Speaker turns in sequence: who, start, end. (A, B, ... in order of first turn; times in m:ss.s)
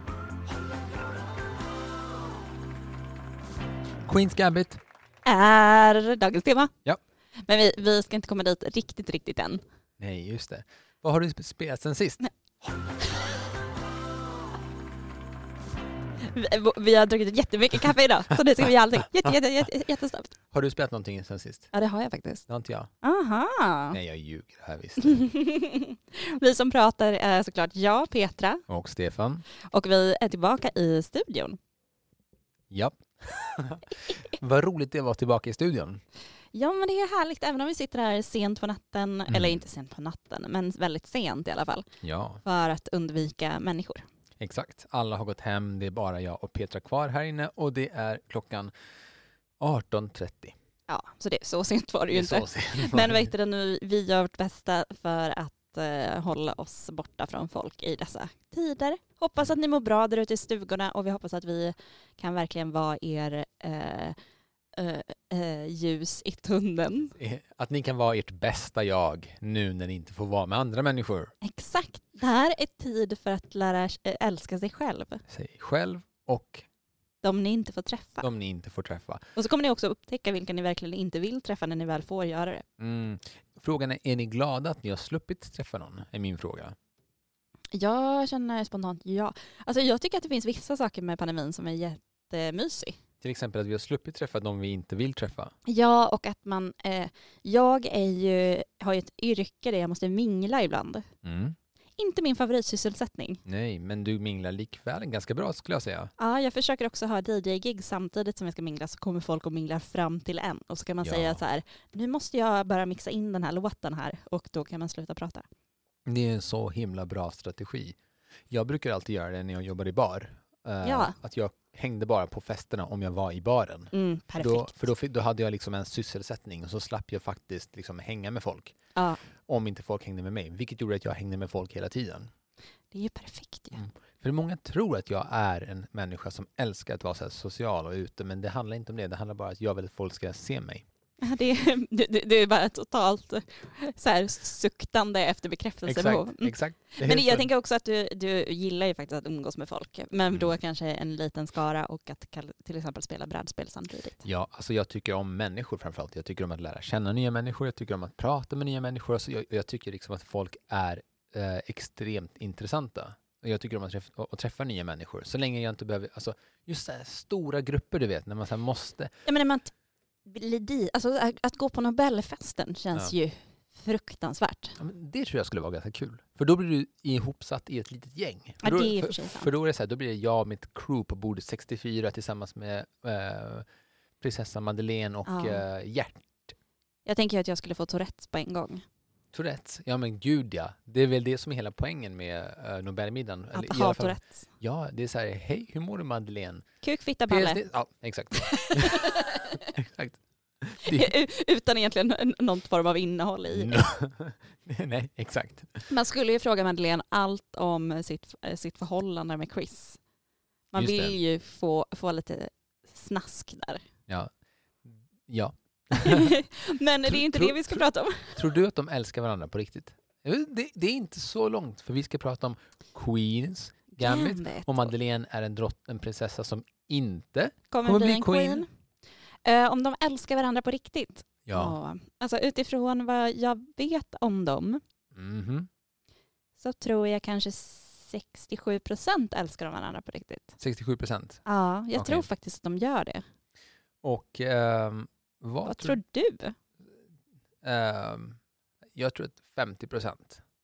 0:04.1-0:04.8 A
0:05.2-0:06.8 B
0:07.5-0:09.6 B
0:10.0-0:12.3 A
0:16.2-0:20.3 B
0:20.5-0:21.7 A
0:21.7-0:22.5 B
0:22.5-0:22.9 A
0:23.0-0:24.0 B
0:23.9-0:25.2 A
0:25.0-0:28.6 B
0:28.7-0:29.4 A
0:29.7-0:31.6 B
0:32.7-0:36.0 A
0:36.5-0:41.9 B
0:39.3-0:39.6 A
0:42.0-0:42.4 A
0:42.4-0:44.0 B
0:44.4-0:48.7 A
0:49.6-0:50.6 A
0:50.9-1:04.2 B
0:52.1-0:53.3 A
1:04.8-1:07.1 B
1:07.1-1:11.3 A
1:11.4-1:15.2 B
1:15.3-1:16.6 A
1:17.2-1:18.3 B
1:18.2-1:19.3 A
1:19.4-1:22.7 B
1:22.8-1:26.8 A
1:27.7-1:33.0 B
1:33.2-1:35.5 A
1:35.7-1:41.1 B
1:41.2-1:41.6 A
1:42.0-1:43.4 B
1:43.5-1:46.1 A
1:46.2-1:55.5 B
1:51.0-1:51.4 A
1:56.1-1:58.0 A
1:58.5-2:08.8 A
2:00.8-2:01.2 B
2:03.9-2:04.8 B
2:09.0-2:09.2 B
2:09.5-2:12.3 A
2:12.9-2:13.8 B
2:13.7-2:20.8 A
2:21.2-2:34.2 B
2:25.9-2:27.5 A
2:34.2-2:49.2 A
2:49.3-2:49.7 B
2:50.3-2:54.8 B
2:54.8-3:03.7 A
2:58.6-2:59.5 B
3:04.2-3:06.6 A
3:05.2-3:05.6 B
3:07.1-3:08.8 B
3:09.3-3:16.7 A
3:13.5-3:14.5 B
3:16.8-3:17.6 B
3:17.3-3:21.1 A
3:18.3-3:19.6 B
3:20.8-3:23.8 B
3:23.5-3:25.9 A
3:25.9-3:30.0 B
3:30.7-3:33.8 B
3:30.8-3:31.2 A
3:34.8-3:36.4 A
3:36.0-3:38.4 B
3:37.1-3:37.8 A
3:38.3-3:48.7 A
3:44.0-3:44.9 B
3:47.7-3:48.7 B
3:49.4-3:54.8 B
3:51.5-3:51.8 A
3:55.1-3:55.7 A
3:56.6-4:00.6 B
4:00.6-4:01.4 A
4:01.5-4:03.2 B
4:01.9-4:02.2 A
4:04.0-4:06.0 A
4:05.6-4:06.6 B
4:07.6-4:08.4 A
4:09.0-4:10.4 A